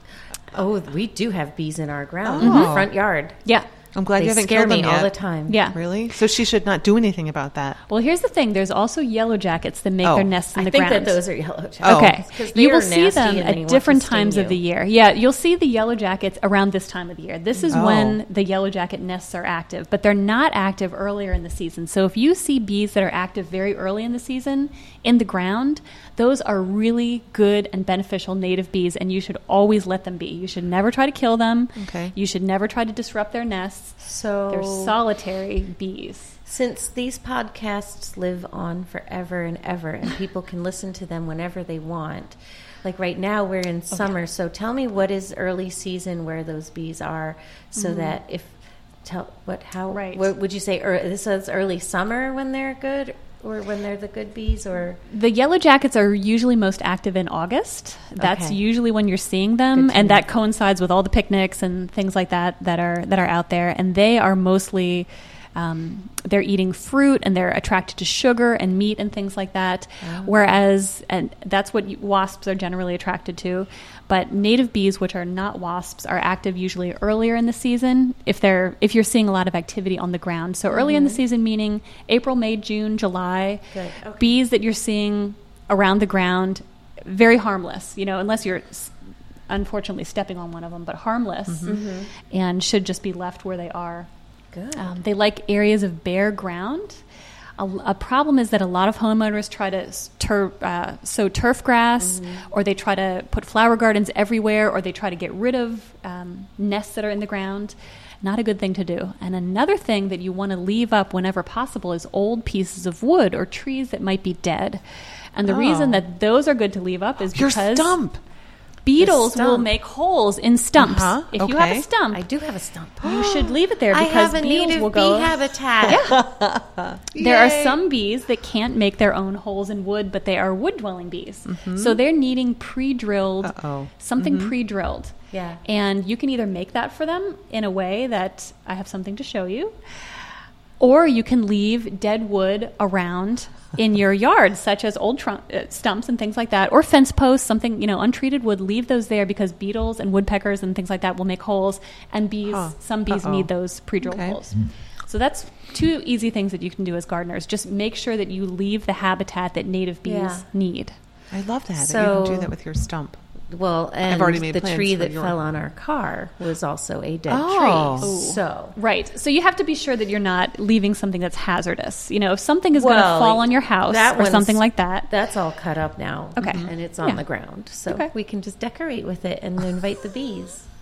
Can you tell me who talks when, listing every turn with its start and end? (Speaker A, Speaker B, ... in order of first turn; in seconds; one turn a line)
Speaker A: 0.5-3.4
Speaker B: 2.2-2.9
Speaker C: 2.4-2.9
Speaker B: 3.9-5.1
Speaker A: 4.2-5.7
Speaker C: 5.5-5.8
Speaker B: 5.7-7.8
Speaker C: 7.9-11.2
Speaker B: 10.0-10.3
Speaker A: 10.5-14.6
Speaker B: 11.8-12.2
Speaker C: 11.8-34.0
Speaker B: 17.7-18.2
Speaker B: 31.8-32.1
Speaker A: 34.0-35.0
Speaker C: 34.5-36.3
Speaker A: 36.5-55.0
Speaker C: 47.8-48.2
Speaker C: 49.9-50.2
Speaker C: 55.1-83.7
Speaker A: 58.2-58.6
Speaker A: 59.7-60.2
Speaker A: 70.0-70.4
Speaker A: 80.7-81.2
Speaker A: 83.7-84.3
Speaker C: 84.2-88.9
Speaker C: 89.5-94.1
Speaker B: 91.5-91.8
Speaker A: 91.7-92.1
Speaker A: 94.5-95.0
Speaker C: 94.8-97.0
Speaker C: 97.6-114.8
Speaker A: 102.0-102.4
Speaker C: 115.3-118.0
Speaker B: 115.4-116.0
Speaker B: 117.3-118.2
Speaker C: 118.8-122.2
Speaker A: 119.0-119.7
Speaker B: 120.8-121.8
Speaker A: 122.1-126.1
Speaker C: 123.0-126.2
Speaker B: 123.1-123.5
Speaker B: 125.9-127.8
Speaker C: 127.2-135.1
Speaker B: 131.4-132.0
Speaker B: 133.4-134.5
Speaker A: 135.3-135.6
Speaker C: 135.6-139.8
Speaker C: 140.8-160.9
Speaker B: 152.5-153.5
Speaker B: 154.0-154.4
Speaker A: 160.0-160.4
Speaker B: 161.3-163.2
Speaker A: 161.8-162.5
Speaker A: 163.5-168.8
Speaker B: 164.0-165.3
Speaker B: 167.3-168.1
Speaker C: 168.0-175.1
Speaker A: 172.7-180.7
Speaker C: 176.4-177.2
Speaker B: 176.4-176.7